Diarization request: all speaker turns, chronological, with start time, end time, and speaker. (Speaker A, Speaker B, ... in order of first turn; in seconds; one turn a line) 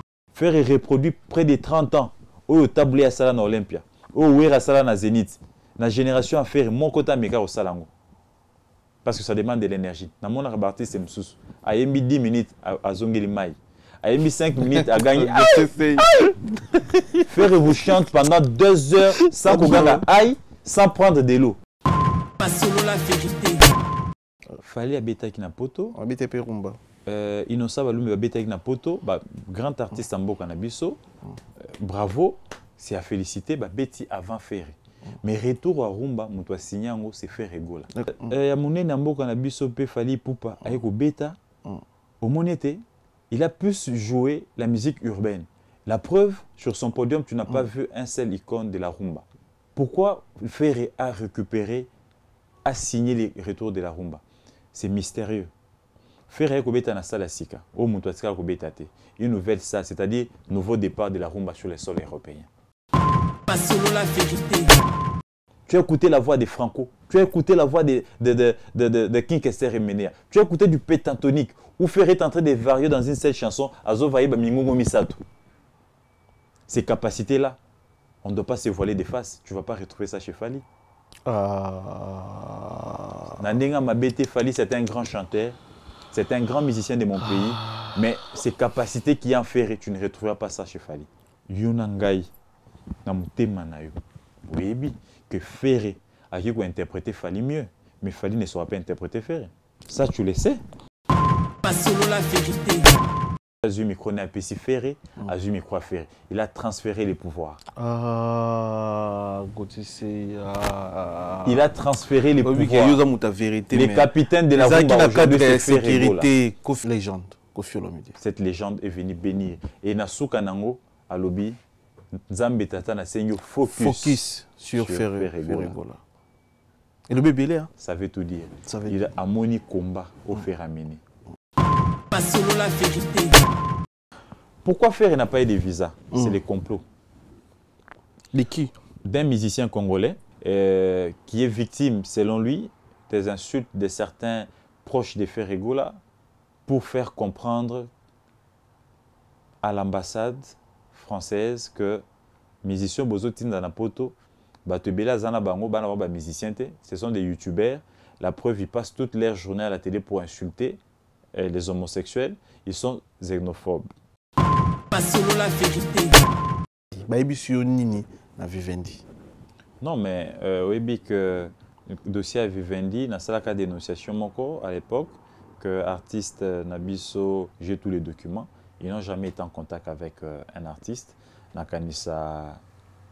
Speaker A: 0.3-7.9
Speaker A: 9.0-16.2
Speaker B: 14.7-16.1
Speaker B: 16.7-17.7
Speaker A: 17.2-21.6
Speaker B: 19.4-20.0
Speaker C: 22.4-23.7
Speaker A: 24.6-25.9
Speaker B: 25.9-26.8
Speaker A: 27.1-31.0
Speaker A: 31.8-41.4
Speaker B: 37.9-38.3
Speaker A: 42.2-49.2
Speaker A: 49.8-51.9
Speaker A: 52.6-54.2
Speaker A: 54.7-55.5
Speaker A: 56.3-62.5
Speaker C: 63.5-64.8
Speaker A: 65.7-75.2
Speaker A: 76.7-77.6
Speaker A: 78.2-80.6
Speaker B: 81.2-83.4
Speaker A: 83.4-85.6
Speaker A: 86.1-92.3
Speaker A: 93.0-100.6
Speaker C: 101.6-103.0
Speaker A: 103.6-107.6
Speaker B: 107.8-111.7
Speaker A: 111.4-113.0
Speaker B: 112.4-118.2
Speaker A: 113.7-116.3
Speaker A: 118.2-121.6
Speaker A: 122.2-125.8
Speaker B: 123.7-126.0
Speaker B: 127.1-127.7
Speaker A: 127.8-131.0
Speaker B: 128.7-129.0
Speaker C: 132.1-133.4
Speaker A: 134.6-136.8
Speaker B: 138.3-138.7
Speaker A: 139.0-146.0
Speaker A: 146.7-147.9
Speaker A: 149.6-152.0
Speaker A: 152.6-154.1
Speaker A: 154.7-160.8
Speaker A: 161.3-163.9
Speaker C: 164.9-166.2
Speaker B: 166.9-169.0
Speaker A: 169.8-182.6